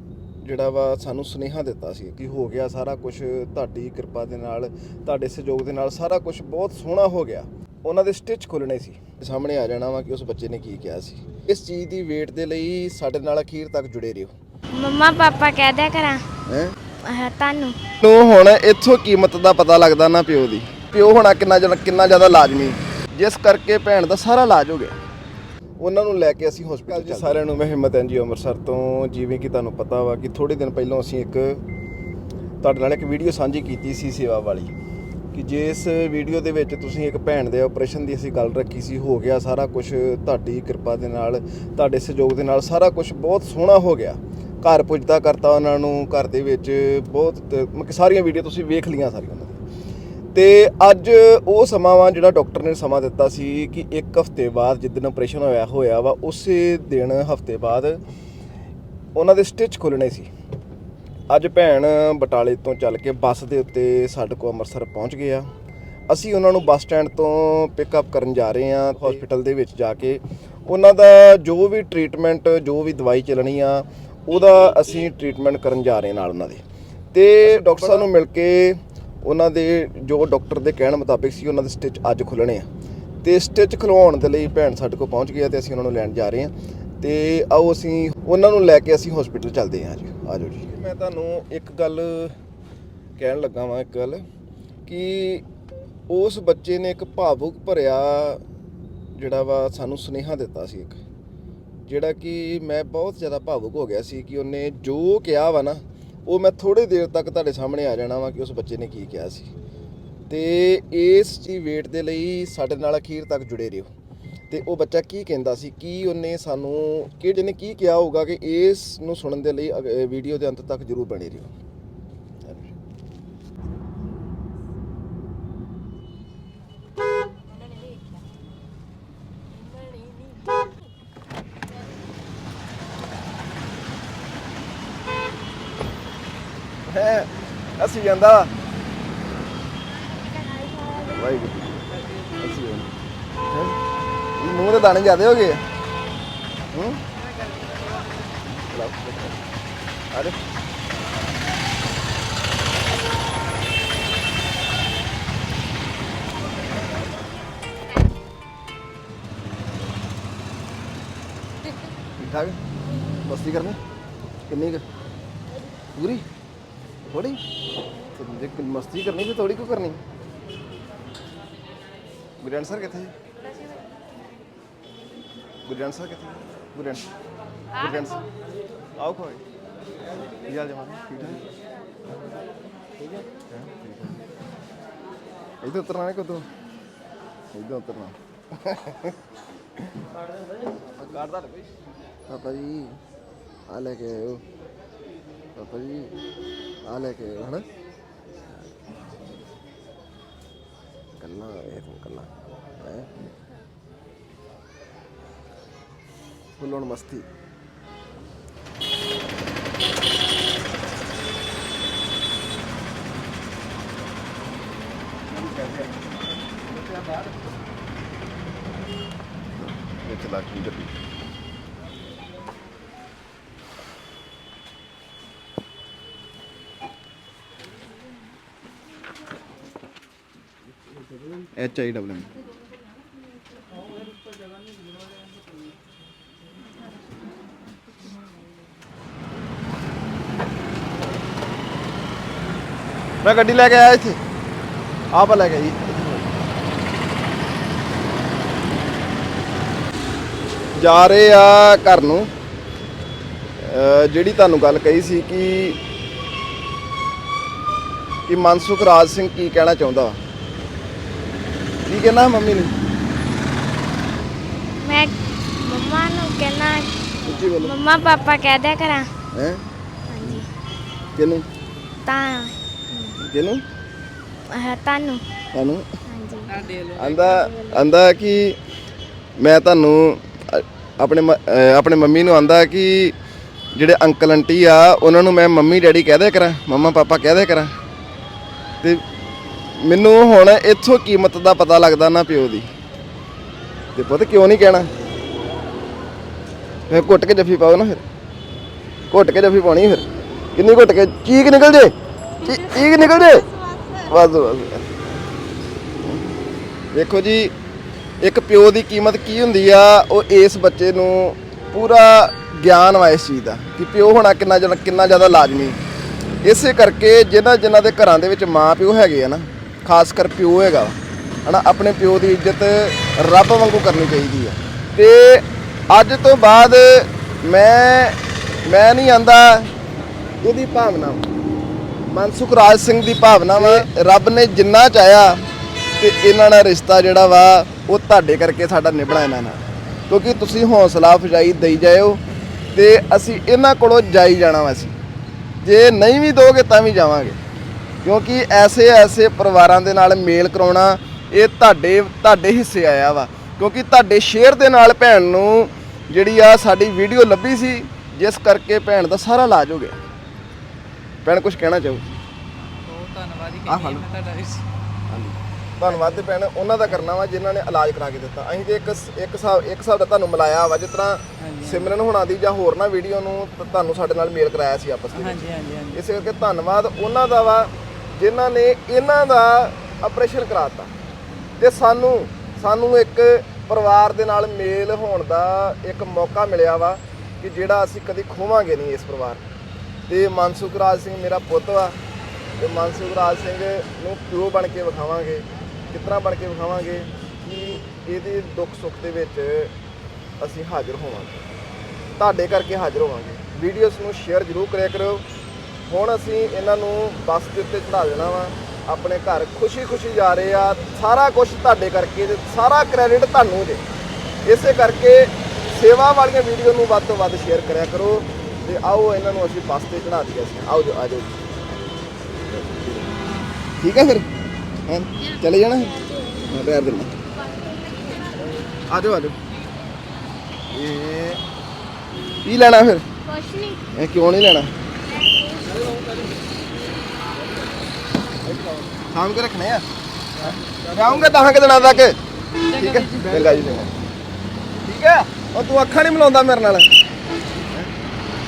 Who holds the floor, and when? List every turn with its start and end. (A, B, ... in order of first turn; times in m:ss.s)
0:00.4-0:14.3 A
0:14.8-0:16.2 B
0:16.5-0:16.8 A
0:17.0-0:17.8 B
0:18.0-0:25.0 A
0:25.8-0:31.6 A
0:32.6-0:34.7 A
0:35.3-0:49.6 A
0:50.3-0:58.0 A
0:59.2-1:00.3 A
1:01.3-1:05.5 A
1:06.1-1:16.6 A
1:17.1-1:22.7 A
1:23.2-1:32.4 A
1:33.2-1:34.2 A
1:34.9-1:35.4 A
1:36.1-1:38.4 A
1:39.2-1:41.0 A
1:41.9-1:49.5 A
1:50.3-1:53.9 A
1:54.5-2:01.5 A
2:02.4-2:02.7 A
2:16.9-2:18.5 A
2:21.0-2:22.9 A
2:23.5-2:23.8 A
2:24.4-2:25.6 A
2:26.7-2:27.0 A
2:28.7-2:29.4 A
2:30.1-2:30.4 A
2:42.2-2:42.6 A
2:43.2-2:43.8 A
2:44.5-2:44.8 A
2:46.0-2:46.3 A
2:47.1-2:47.4 A
2:48.2-2:50.0 A
2:52.4-2:53.1 A
2:55.6-2:57.1 A
2:57.8-2:58.2 A
2:59.0-2:59.4 A
3:00.4-3:01.4 A
3:03.5-3:04.2 A
3:05.6-3:06.5 A
3:07.5-3:09.2 A
3:11.0-3:11.7 A
3:12.3-3:13.0 A
3:13.7-3:14.4 A
3:15.6-3:16.2 A
3:16.9-3:17.7 A
3:21.2-3:23.1 A
3:26.6-3:27.3 A
3:40.0-3:40.9 A
3:51.6-3:52.3 A
4:03.2-4:04.2 A
4:05.1-4:06.4 A
4:10.8-4:12.3 A
4:13.6-4:15.8 A
4:18.3-4:20.2 A
4:21.9-4:22.7 A
4:24.8-4:29.1 B
4:27.2-4:27.8 A
4:29.3-4:29.7 A
4:30.1-4:30.5 B
4:31.2-4:31.5 A
4:32.0-4:33.2 B
4:33.2-4:33.6 A
4:34.5-4:35.2 B
4:35.5-4:35.8 A
4:36.1-4:36.6 B
4:36.5-4:37.5 C
4:37.0-4:38.6 A
4:37.4-4:37.9 B
4:39.4-4:43.2 A
4:43.7-4:47.7 A
4:49.8-4:52.7 A
4:54.0-4:54.9 A
4:56.9-4:58.0 A
4:59.1-5:05.1 A
5:03.5-5:03.9 B
5:06.0-5:06.3 A
5:06.9-5:07.5 A
5:08.2-5:15.8 A
5:16.4-5:29.7 A
5:30.4-5:31.3 A
5:32.1-5:35.4 A
5:36.0-5:42.2 A
5:42.8-5:45.0 A
5:45.6-5:47.4 A
5:48.0-6:00.0 A
6:01.2-6:02.1 A
6:02.8-6:04.7 C
6:03.7-6:04.0 A
6:05.1-6:20.9 A
6:05.8-6:06.3 C
6:11.4-6:11.9 C
6:15.1-6:16.0 C
6:21.6-6:29.4 A
6:30.1-6:32.0 A
6:32.6-6:39.7 A
6:40.4-6:41.4 A
6:42.2-6:45.3 A
6:45.9-6:53.8 A
6:54.4-7:01.6 A
7:02.5-7:03.2 A
7:03.8-7:04.3 A
7:04.9-7:06.0 A
7:05.6-7:06.6 B
7:06.5-7:07.1 A
7:07.6-7:08.4 B
7:08.9-7:09.4 A
7:10.7-7:11.4 A
7:12.4-7:13.1 A
7:13.3-7:13.8 B
7:13.9-7:14.7 A
7:15.1-7:15.8 B
7:19.1-7:19.9 A
7:20.4-7:22.2 A
7:22.6-7:23.8 C
7:22.7-7:23.9 A
7:24.8-7:26.9 A